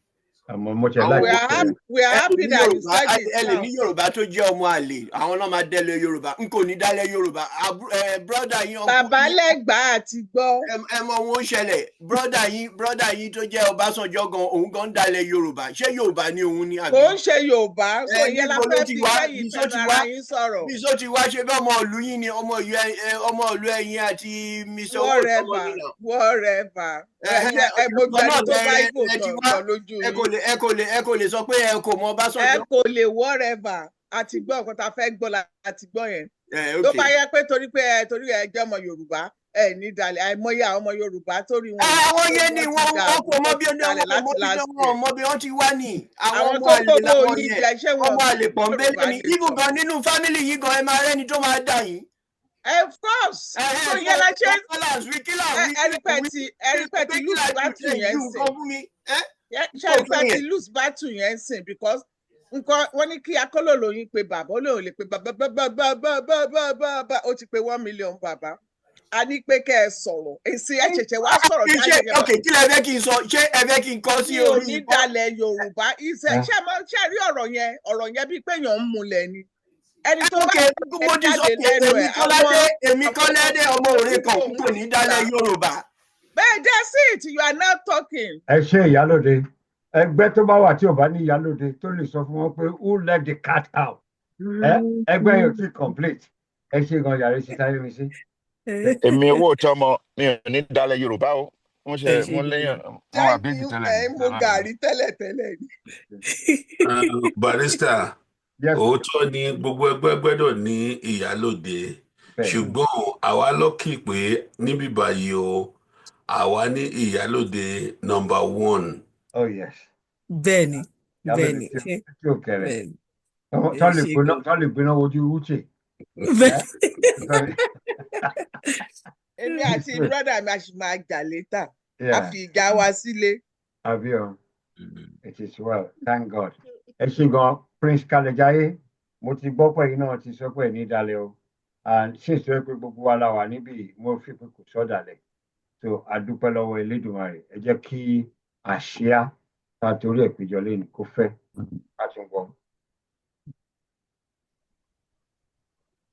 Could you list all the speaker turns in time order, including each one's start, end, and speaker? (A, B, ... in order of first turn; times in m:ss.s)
0:00.5-0:01.7 A
0:01.0-0:09.4 B
0:01.1-0:03.7 C
0:08.9-0:10.6 C
0:10.6-0:17.2 B
0:16.9-0:20.7 C
0:18.1-0:20.1 B
0:20.6-0:25.9 B
0:24.9-0:30.3 C
0:27.2-0:32.7 B
0:32.4-0:36.3 C
0:36.5-0:37.1 B
0:36.8-0:45.0 C
0:41.8-0:52.1 B
0:46.3-0:49.6 C
0:52.7-0:54.6 C
0:53.6-0:59.2 B
0:55.6-0:58.5 C
0:59.5-1:08.6 C
0:59.9-1:00.4 B
1:09.1-1:12.3 C
1:10.8-1:15.1 B
1:14.2-1:19.5 C
1:20.0-1:25.3 C
1:20.2-1:25.9 B
1:26.4-1:28.4 C
1:28.5-1:34.0 A
1:34.6-1:38.1 A
1:38.8-1:39.2 D
1:39.0-1:44.7 E
1:42.1-1:42.6 D
1:43.1-1:45.6 C
1:46.8-1:48.2 F
1:48.6-1:49.0 A
1:48.8-1:55.7 F
1:52.4-1:52.8 A
1:56.3-1:59.0 F
1:59.4-1:59.9 A
2:00.3-2:02.0 D
2:01.3-2:02.7 A
2:02.6-2:03.0 D
2:03.5-2:05.7 A
2:03.8-2:04.3 D
2:06.3-2:06.6 D
2:07.2-2:07.6 A
2:09.4-2:13.4 C
2:09.7-2:10.1 A
2:12.0-2:12.4 A
2:13.8-2:14.4 A
2:15.2-2:25.2 A
2:25.8-2:31.4 A
2:32.0-2:32.5 A